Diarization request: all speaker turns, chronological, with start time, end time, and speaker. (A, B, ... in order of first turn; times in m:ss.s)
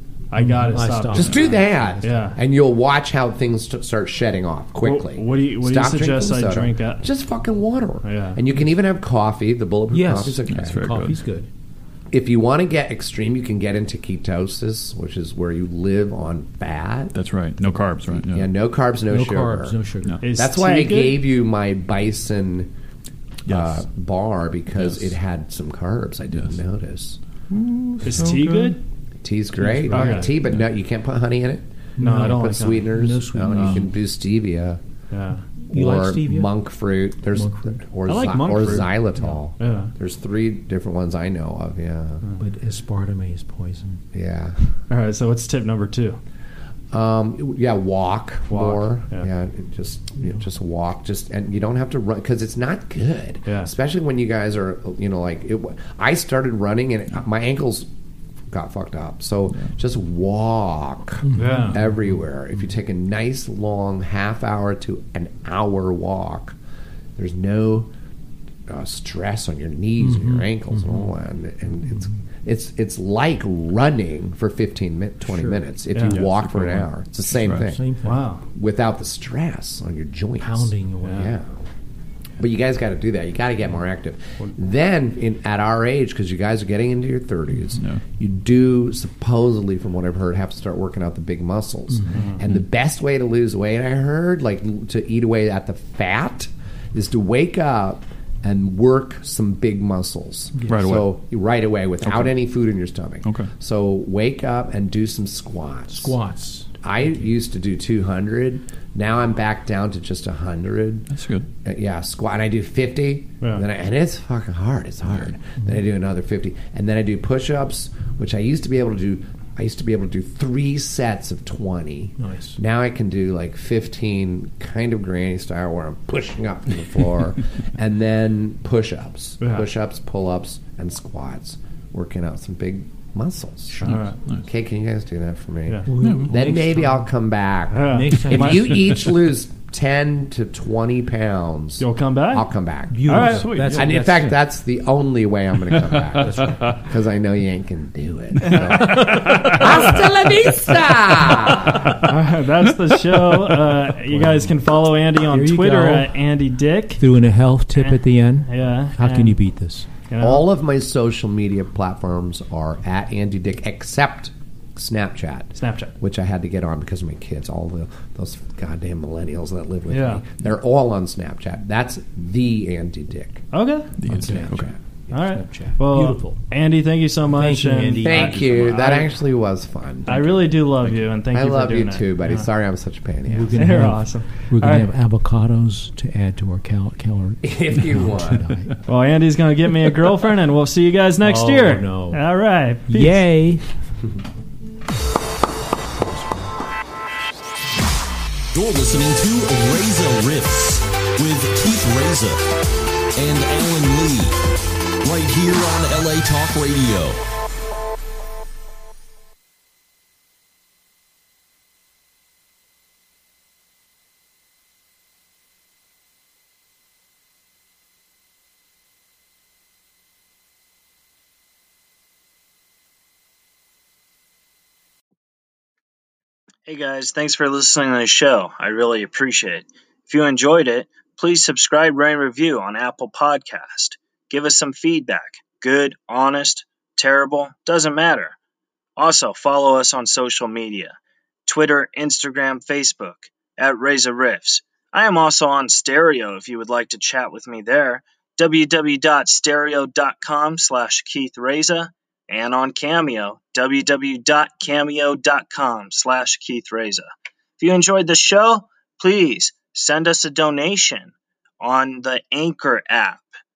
0:00.3-0:02.4 A
0:00.4-0:02.2 B
0:01.1-0:10.9 C
0:04.8-0:07.0 A
0:08.0-0:08.4 A
0:09.9-0:11.5 B
0:10.5-0:11.2 D
0:12.1-0:17.2 C
0:17.1-0:18.5 D
0:18.1-0:19.8 C
0:19.1-0:20.7 B
0:20.2-0:21.2 A
0:20.4-0:22.7 C
0:23.5-0:23.8 D
0:23.5-0:27.2 C
0:24.8-0:25.1 D
0:27.5-0:28.8 D
0:28.0-0:28.8 A
0:29.2-0:34.8 C
0:29.7-0:30.3 B
0:29.9-0:30.4 A
0:32.0-0:33.9 B
0:32.0-0:32.9 A
0:35.1-0:35.4 A
0:35.7-0:36.6 B
0:35.7-0:42.2 C
0:37.4-0:37.8 B
0:38.1-0:39.0 A
0:39.6-0:39.9 A
0:42.4-0:44.0 B
0:44.1-0:44.6 C
0:44.9-0:46.2 A
0:46.9-0:57.9 C
0:48.5-0:49.3 A
0:53.5-0:53.7 A
0:58.5-1:06.6 C
1:01.2-1:01.8 B
1:01.4-1:01.8 A
1:07.2-1:07.9 C
1:08.7-1:21.6 C
1:10.0-1:11.0 B
1:15.3-1:15.6 B
1:15.9-1:16.2 A
1:16.0-1:17.7 D
1:17.6-1:18.2 B
1:18.0-1:18.4 A
1:20.4-1:21.3 B
1:21.0-1:21.3 A
1:22.4-1:46.2 C
1:40.6-1:40.9 B
1:40.7-1:41.1 D
1:42.0-1:42.3 D
1:43.2-1:43.5 D
1:45.9-1:46.7 B
1:46.8-1:51.1 C
1:51.1-1:51.5 D
1:51.6-2:32.0 C
2:02.2-2:02.6 B
2:09.4-2:09.7 A
2:13.8-2:14.2 A
2:13.8-2:14.4 D
2:15.9-2:17.1 B
2:16.0-2:16.3 D
2:17.7-2:18.9 A
2:17.8-2:19.1 B
2:21.8-2:22.5 A
2:22.9-2:24.4 B
2:23.0-2:24.0 A
2:26.2-2:26.7 B
2:28.4-2:29.8 A
2:31.8-2:37.0 A
2:34.1-2:34.5 B
2:35.3-2:36.1 B
2:37.0-2:39.9 B
2:37.8-2:39.4 A
2:40.1-2:40.5 A
2:40.2-2:53.4 C
2:45.6-2:45.9 A
2:49.9-2:50.2 A
2:53.5-2:53.9 A
2:54.0-2:54.7 D
2:54.1-2:56.4 B
2:54.1-2:54.8 C
2:55.1-2:59.1 A
2:57.3-2:59.0 B
2:58.0-3:00.7 C
3:00.1-3:02.5 A
3:01.3-3:03.9 C
3:03.3-3:08.7 B
3:03.5-3:04.9 A
3:07.4-3:08.5 C
3:08.9-3:13.3 A
3:11.2-3:12.2 B
3:12.9-3:13.6 B
3:16.0-3:16.5 B
3:18.5-3:22.4 E
3:23.2-3:24.4 E
3:25.0-3:27.2 E
3:46.7-3:58.4 A
3:59.0-4:23.3 A